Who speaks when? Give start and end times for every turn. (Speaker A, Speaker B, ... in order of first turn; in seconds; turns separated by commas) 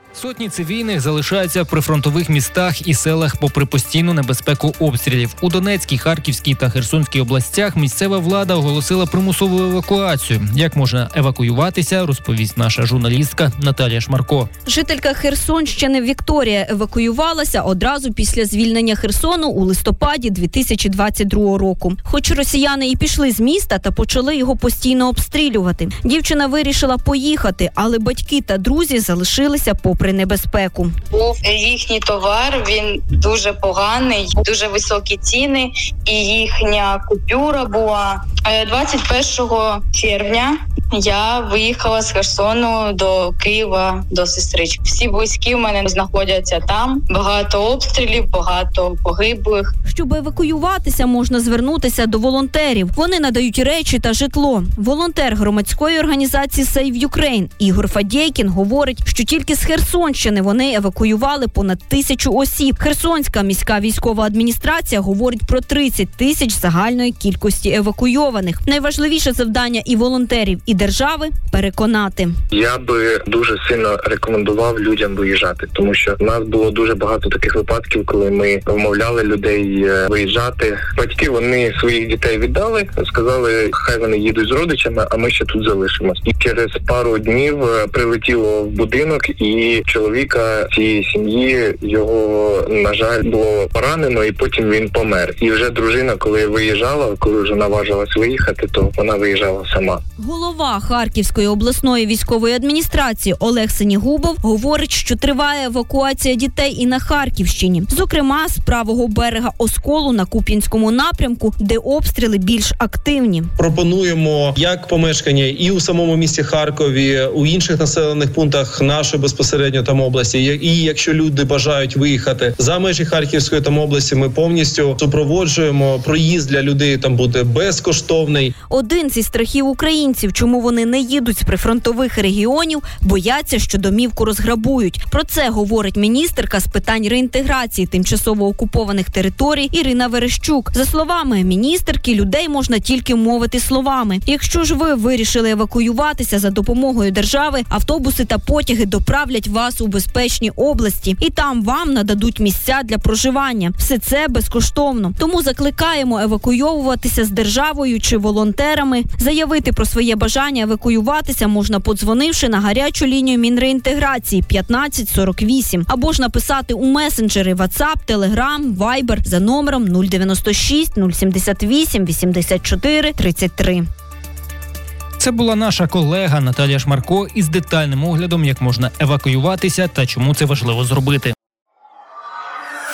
Speaker A: 0.1-14.5, Speaker B: 14.7-30.9, Speaker C: 31.1-49.7, Speaker B: 49.9-72.3, Speaker D: 72.5-100.0, Speaker B: 100.2-113.5, Speaker E: 113.6-128.5, Speaker B: 128.7-173.8, Speaker A: 175.2-181.3